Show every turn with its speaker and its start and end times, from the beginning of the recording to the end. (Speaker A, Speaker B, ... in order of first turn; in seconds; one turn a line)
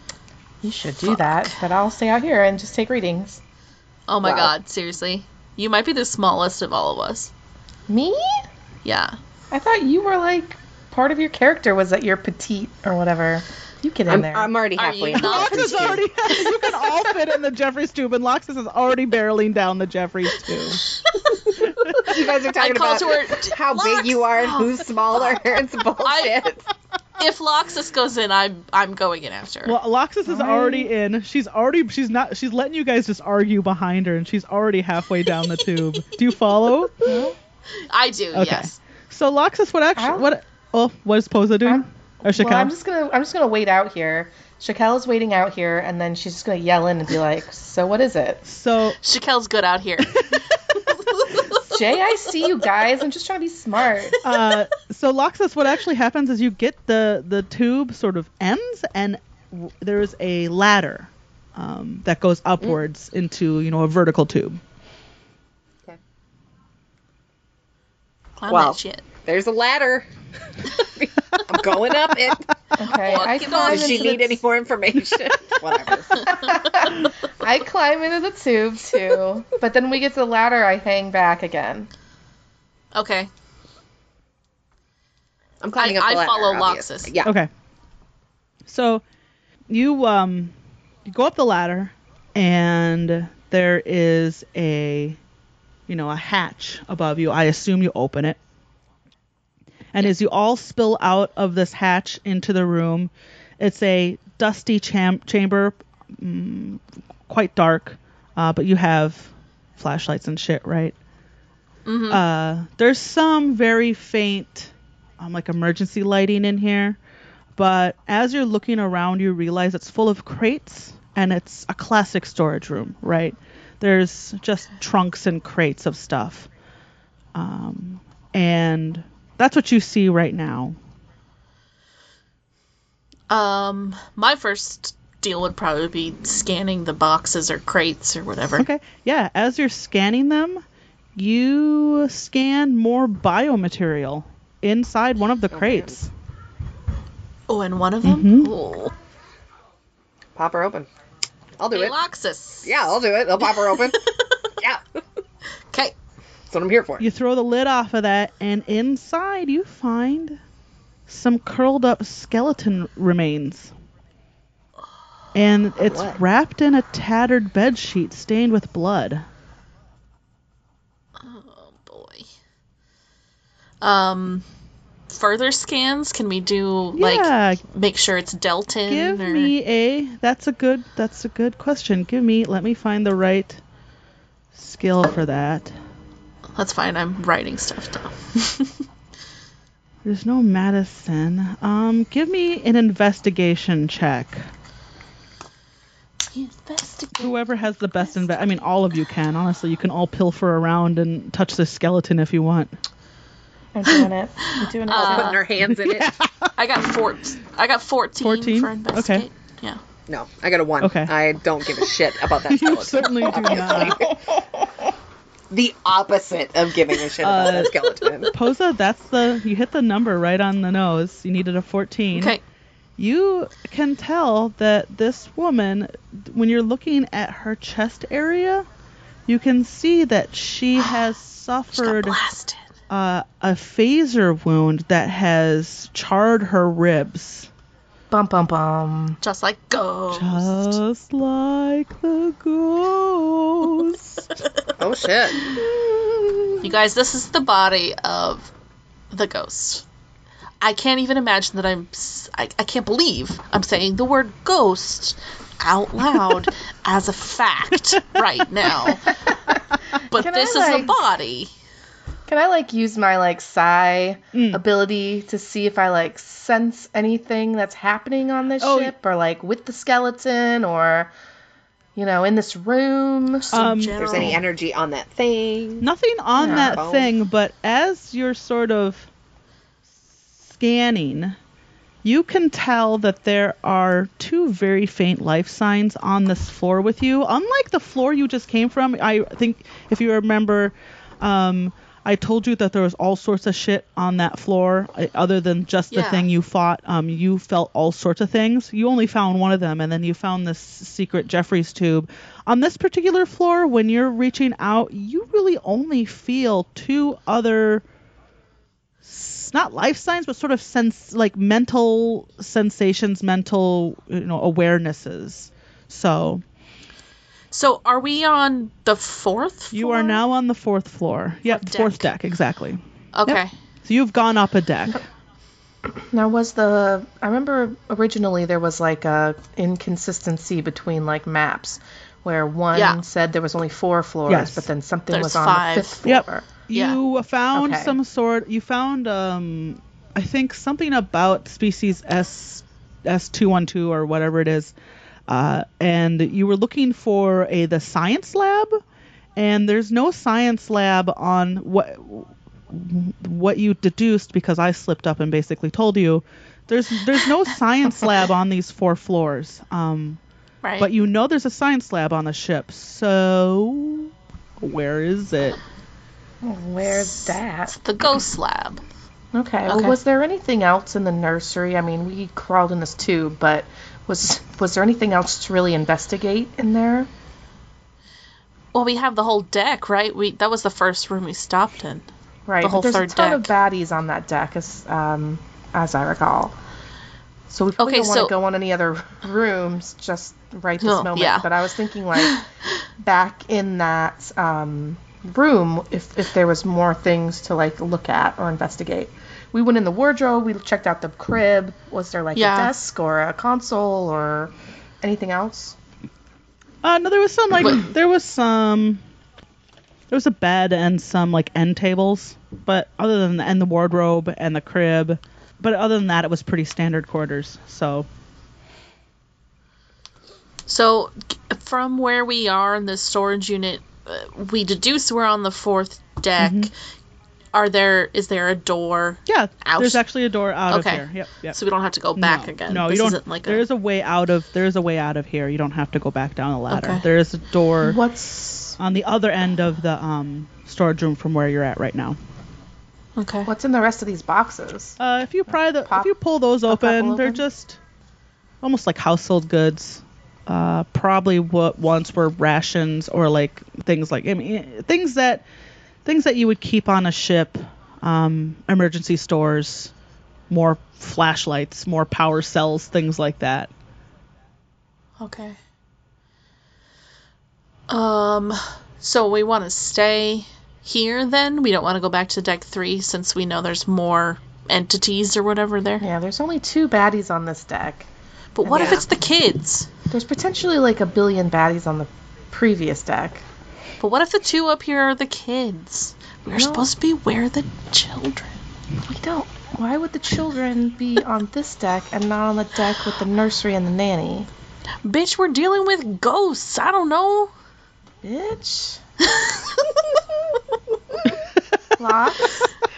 Speaker A: 0.6-3.4
Speaker B: 1.0-1.5
Speaker B: 4.1-7.3
Speaker C: 4.2-4.5
Speaker A: 7.9-8.4
Speaker B: 8.8-9.2
Speaker A: 9.5-14.6
Speaker C: 14.1-16.1
Speaker B: 14.8-16.6
Speaker D: 15.1-20.8
Speaker D: 21.6-22.1
Speaker C: 21.9-26.7
Speaker B: 22.1-26.4
Speaker B: 27.2-29.8
Speaker D: 29.6-36.9
Speaker A: 30.2-30.9
Speaker A: 37.0-37.3
Speaker B: 37.8-38.8
Speaker D: 38.3-42.7
Speaker A: 40.0-40.3
Speaker A: 41.6-48.4
Speaker D: 48.4-49.0
Speaker B: 49.0-51.8
Speaker A: 51.5-54.2
Speaker D: 54.2-64.6
Speaker B: 68.4-69.0
Speaker C: 68.5-70.1
Speaker C: 70.7-72.5
Speaker A: 72.8-74.4
Speaker B: 72.9-74.1
Speaker C: 73.4-76.6
Speaker A: 76.2-81.9
Speaker B: 82.9-83.3
Speaker C: 85.6-87.3
Speaker B: 85.8-87.1
Speaker D: 87.2-87.5
Speaker D: 88.7-89.0
Speaker D: 89.7-90.5
Speaker D: 91.0-95.2
Speaker D: 95.9-98.4
Speaker D: 99.9-110.9
Speaker B: 111.8-112.2
Speaker D: 112.1-117.0
Speaker D: 117.5-126.5
Speaker D: 127.3-130.8
Speaker B: 133.3-138.7
Speaker D: 138.6-140.6
Speaker D: 141.2-146.1
Speaker C: 145.5-145.9
Speaker B: 147.5-148.9
Speaker D: 148.0-148.5
Speaker C: 150.3-150.9
Speaker C: 151.6-151.9
Speaker B: 151.7-154.2
Speaker C: 152.6-154.8
Speaker C: 156.5-157.1
Speaker D: 157.0-160.4
Speaker D: 161.1-163.7
Speaker D: 165.3-169.2
Speaker C: 165.8-166.2
Speaker B: 171.2-172.3
Speaker B: 173.8-174.4
Speaker B: 175.1-179.5
Speaker D: 176.9-177.6
Speaker D: 178.9-183.6
Speaker D: 184.5-185.7
Speaker B: 186.6-188.7
Speaker D: 190.0-194.4
Speaker B: 196.3-198.4
Speaker D: 197.2-202.8
Speaker A: 203.7-205.4
Speaker B: 204.8-205.4
Speaker C: 204.9-206.2
Speaker D: 205.6-206.5
Speaker B: 206.6-209.8
Speaker D: 208.2-209.2
Speaker C: 210.1-214.4
Speaker D: 210.8-211.1
Speaker D: 212.5-214.1
Speaker C: 215.5-218.3
Speaker D: 217.2-217.7
Speaker D: 218.3-222.4
Speaker B: 222.1-222.4
Speaker D: 223.0-228.7
Speaker D: 229.3-232.2
Speaker B: 230.8-231.1
Speaker B: 231.7-232.6
Speaker D: 232.9-237.5
Speaker A: 238.1-239.2
Speaker B: 239.2-240.8
Speaker D: 240.1-244.3
Speaker C: 244.8-245.6
Speaker B: 246.6-248.5
Speaker B: 249.1-249.8
Speaker B: 250.6-259.1
Speaker B: 260.1-261.5
Speaker A: 260.1-261.0
Speaker A: 262.3-271.1
Speaker D: 264.3-264.6
Speaker D: 268.6-268.9
Speaker A: 271.9-273.6
Speaker B: 273.5-274.4
Speaker D: 273.5-274.4
Speaker C: 274.0-275.9
Speaker D: 275.8-279.1
Speaker A: 276.4-276.8
Speaker C: 276.4-277.1
Speaker D: 280.5-281.4
Speaker D: 282.0-307.8
Speaker B: 295.9-296.3
Speaker D: 309.0-316.4
Speaker B: 317.5-320.2
Speaker D: 319.7-325.0
Speaker B: 321.4-322.1
Speaker B: 323.1-323.5
Speaker A: 325.9-336.5
Speaker B: 332.7-333.0
Speaker D: 334.3-334.7
Speaker B: 335.1-336.0
Speaker D: 336.1-344.7
Speaker B: 336.7-337.0
Speaker A: 337.5-337.9
Speaker D: 345.3-348.8
Speaker D: 349.4-360.2
Speaker B: 360.6-360.9
Speaker D: 360.8-365.6
Speaker A: 366.4-367.7
Speaker B: 367.7-368.8
Speaker A: 369.3-377.1
Speaker B: 369.7-370.0
Speaker B: 378.7-382.1
Speaker A: 382.5-386.6
Speaker B: 382.6-383.5
Speaker A: 387.5-392.4
Speaker B: 387.8-388.3
Speaker B: 390.8-391.5
Speaker B: 392.1-392.4
Speaker A: 393.0-405.8
Speaker B: 402.4-402.7
Speaker D: 406.8-409.0
Speaker D: 410.1-418.1
Speaker B: 420.7-426.7
Speaker D: 426.4-426.7
Speaker B: 427.5-430.0
Speaker D: 429.3-431.6
Speaker B: 430.7-433.6
Speaker D: 432.1-438.0
Speaker B: 436.7-437.0
Speaker A: 437.8-438.8
Speaker D: 438.8-442.2
Speaker B: 443.1-443.5
Speaker A: 443.4-445.0
Speaker D: 445.0-447.8
Speaker A: 445.8-446.1
Speaker A: 446.6-447.4
Speaker D: 448.6-455.4
Speaker D: 456.0-459.9
Speaker D: 460.5-463.7
Speaker B: 465.2-465.6
Speaker B: 467.9-476.1
Speaker A: 476.0-478.1
Speaker B: 478.5-479.9
Speaker A: 478.6-479.0
Speaker C: 478.7-479.0
Speaker A: 480.1-483.4
Speaker B: 484.0-488.5
Speaker A: 486.5-486.9
Speaker A: 489.0-494.5
Speaker B: 495.0-497.5
Speaker A: 498.2-499.0
Speaker B: 499.3-499.8
Speaker A: 502.0-502.7